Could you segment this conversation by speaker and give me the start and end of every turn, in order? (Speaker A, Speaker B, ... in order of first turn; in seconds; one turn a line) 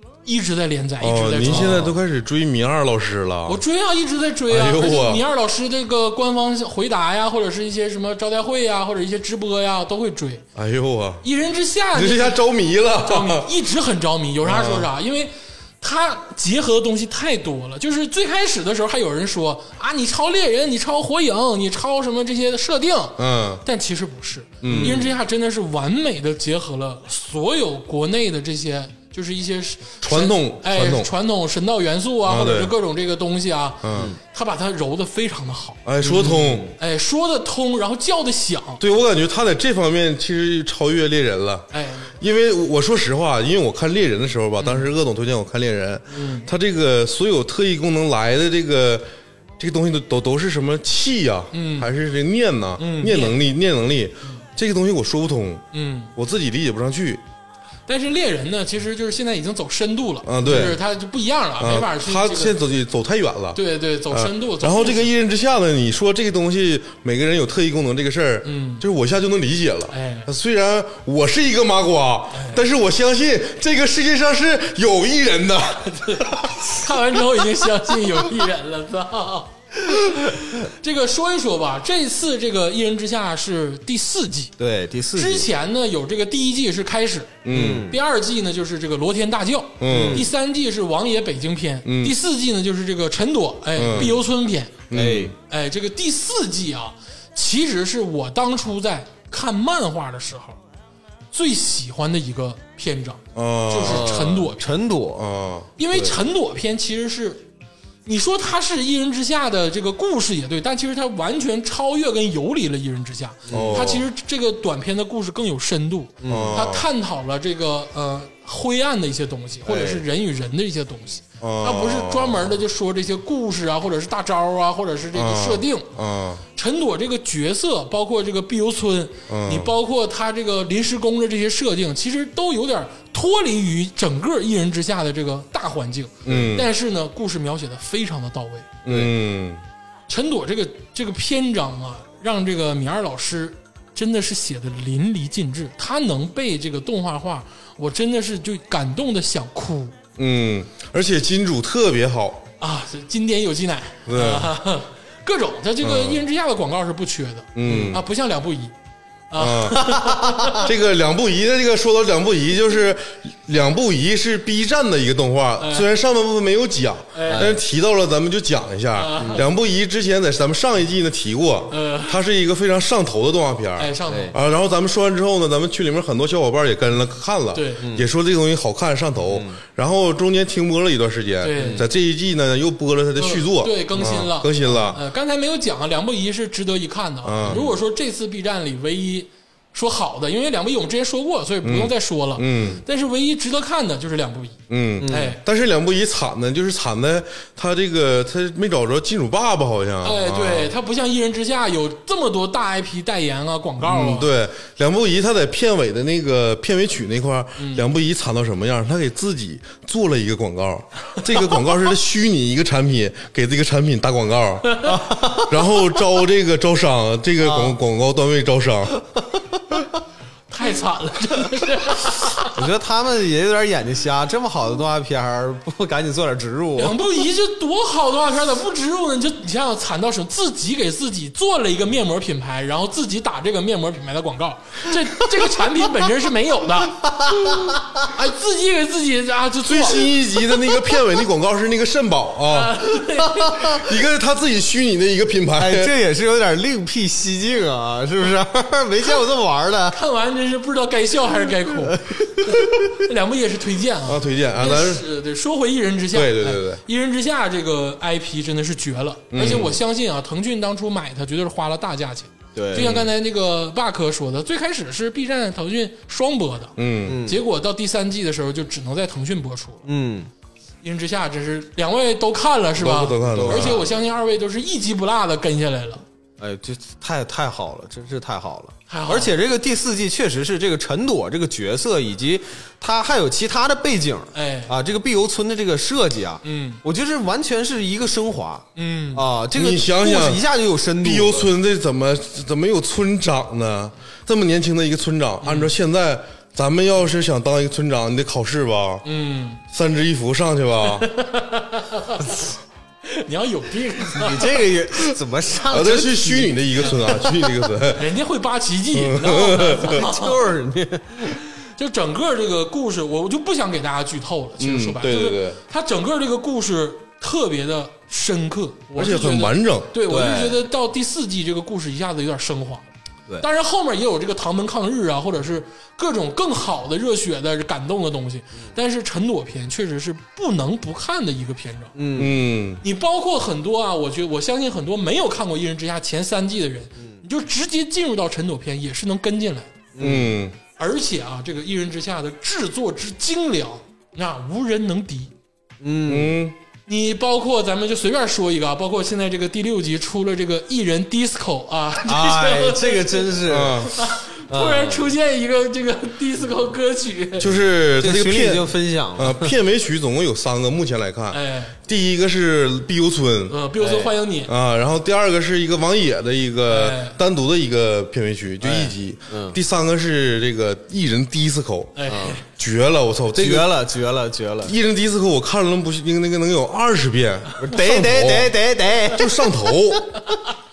Speaker A: 0.2-1.9
Speaker B: 1.0-3.6
Speaker C: 1.4-1.9
Speaker A: 3.5-10.4
Speaker B: 4.5-5.2
Speaker B: 10.6-11.2
Speaker A: 11.2-12.4
Speaker B: 11.9-13.5
Speaker A: 12.9-38.8
Speaker B: 14.4-14.9
Speaker B: 23.2-23.6
Speaker B: 24.6-25.0
Speaker C: 24.6-25.1
Speaker B: 30.0-31.1
Speaker B: 32.2-32.7
Speaker B: 33.8-34.1
Speaker B: 35.8-36.7
Speaker C: 36.1-36.7
Speaker B: 38.8-49.1
Speaker A: 41.7-42.1
Speaker A: 44.6-44.9
Speaker A: 46.1-46.5
Speaker B: 49.6-55.6
Speaker A: 51.5-51.9
Speaker A: 52.8-53.4
Speaker A: 55.7-56.1
Speaker B: 56.1-57.2
Speaker A: 57.9-62.6
Speaker B: 60.2-60.8
Speaker B: 61.6-76.5
Speaker A: 63.5-65.1
Speaker A: 68.4-68.8
Speaker A: 69.9-70.3
Speaker A: 72.3-72.6
Speaker A: 75.9-84.5
Speaker C: 84.6-85.5
Speaker A: 85.1-94.8
Speaker B: 87.4-87.9
Speaker C: 87.5-88.0
Speaker B: 89.8-90.3
Speaker C: 89.9-90.3
Speaker B: 91.8-92.1
Speaker B: 93.7-94.1
Speaker B: 94.9-95.3
Speaker C: 94.9-95.3
Speaker A: 95.5-100.6
Speaker A: 101.3-104.7
Speaker B: 103.3-104.1
Speaker C: 103.8-105.2
Speaker B: 105.1-105.7
Speaker A: 105.8-107.4
Speaker C: 105.9-106.2
Speaker A: 108.0-125.9
Speaker C: 113.5-113.9
Speaker B: 113.5-114.0
Speaker C: 116.2-116.6
Speaker B: 116.3-116.9
Speaker C: 119.6-120.0
Speaker B: 121.4-122.5
Speaker B: 125.1-126.4
Speaker A: 126.5-138.7
Speaker B: 129.3-129.7
Speaker B: 136.2-136.7
Speaker C: 136.3-136.5
Speaker B: 138.8-139.6
Speaker C: 138.9-139.1
Speaker A: 140.1-149.9
Speaker B: 150.2-152.4
Speaker A: 152.6-158.7
Speaker B: 154.1-154.5
Speaker B: 155.8-156.2
Speaker B: 157.5-158.0
Speaker C: 157.7-157.9
Speaker A: 159.3-160.7
Speaker B: 159.4-185.0
Speaker A: 165.6-165.9
Speaker A: 167.1-167.5
Speaker C: 167.3-167.6
Speaker A: 168.9-169.5
Speaker C: 169.2-169.4
Speaker A: 171.7-172.2
Speaker A: 173.8-174.4
Speaker C: 174.1-174.3
Speaker A: 177.5-177.8
Speaker C: 177.8-178.1
Speaker C: 179.3-179.6
Speaker A: 181.4-181.8
Speaker C: 181.6-181.9
Speaker A: 183.2-195.4
Speaker B: 187.2-187.6
Speaker C: 187.4-187.8
Speaker B: 191.6-192.8
Speaker B: 194.7-200.7
Speaker C: 195.0-195.3
Speaker A: 200.0-204.3
Speaker B: 203.8-219.0
Speaker A: 207.6-207.8
Speaker C: 214.8-215.5
Speaker C: 217.4-217.8
Speaker A: 220.5-222.6
Speaker C: 222.5-227.0
Speaker A: 226.8-237.1
Speaker C: 237.2-237.8
Speaker A: 238.0-240.1
Speaker B: 239.6-242.8
Speaker A: 242.5-243.8
Speaker C: 243.4-243.8
Speaker B: 243.6-245.9
Speaker C: 245.6-250.0
Speaker A: 249.9-269.9
Speaker C: 251.8-252.9
Speaker B: 254.1-255.1
Speaker B: 256.1-256.8
Speaker B: 259.3-259.7
Speaker C: 259.4-259.7
Speaker C: 262.5-263.1
Speaker B: 266.8-267.2
Speaker C: 267.1-267.4
Speaker C: 269.9-270.3
Speaker A: 270.8-276.0
Speaker B: 272.8-273.8
Speaker C: 273.2-273.9
Speaker C: 276.4-291.5
Speaker A: 278.9-279.3
Speaker A: 284.3-284.7
Speaker A: 286.4-286.8
Speaker A: 288.8-289.2
Speaker B: 289.5-290.4
Speaker B: 291.0-299.0
Speaker A: 295.4-295.7
Speaker A: 299.0-299.6
Speaker B: 299.7-301.1
Speaker A: 300.9-302.4
Speaker A: 303.1-304.6
Speaker C: 304.1-307.4
Speaker B: 305.7-308.1
Speaker A: 307.9-310.4
Speaker B: 308.9-310.0
Speaker C: 309.8-311.4
Speaker A: 311.8-322.9
Speaker B: 314.6-315.6
Speaker B: 318.9-319.9
Speaker C: 320.1-320.6
Speaker A: 323.4-331.9
Speaker C: 331.9-332.4
Speaker B: 332.1-332.8
Speaker A: 332.8-339.8
Speaker C: 339.9-340.4
Speaker B: 340.0-340.6
Speaker A: 340.8-345.3
Speaker C: 345.8-346.4
Speaker B: 346.1-346.6
Speaker A: 346.9-353.3
Speaker C: 352.0-353.9
Speaker B: 353.4-353.9
Speaker A: 353.9-357.5
Speaker C: 354.5-355.1
Speaker B: 357.4-363.6
Speaker C: 358.0-359.5
Speaker A: 361.3-361.8
Speaker A: 363.5-364.5
Speaker C: 363.8-364.1
Speaker B: 364.5-373.7
Speaker A: 366.7-367.2
Speaker C: 368.6-369.6
Speaker A: 371.9-372.4
Speaker C: 372.1-372.4
Speaker C: 373.4-374.7
Speaker B: 374.6-378.6
Speaker C: 377.6-379.6
Speaker B: 379.1-380.0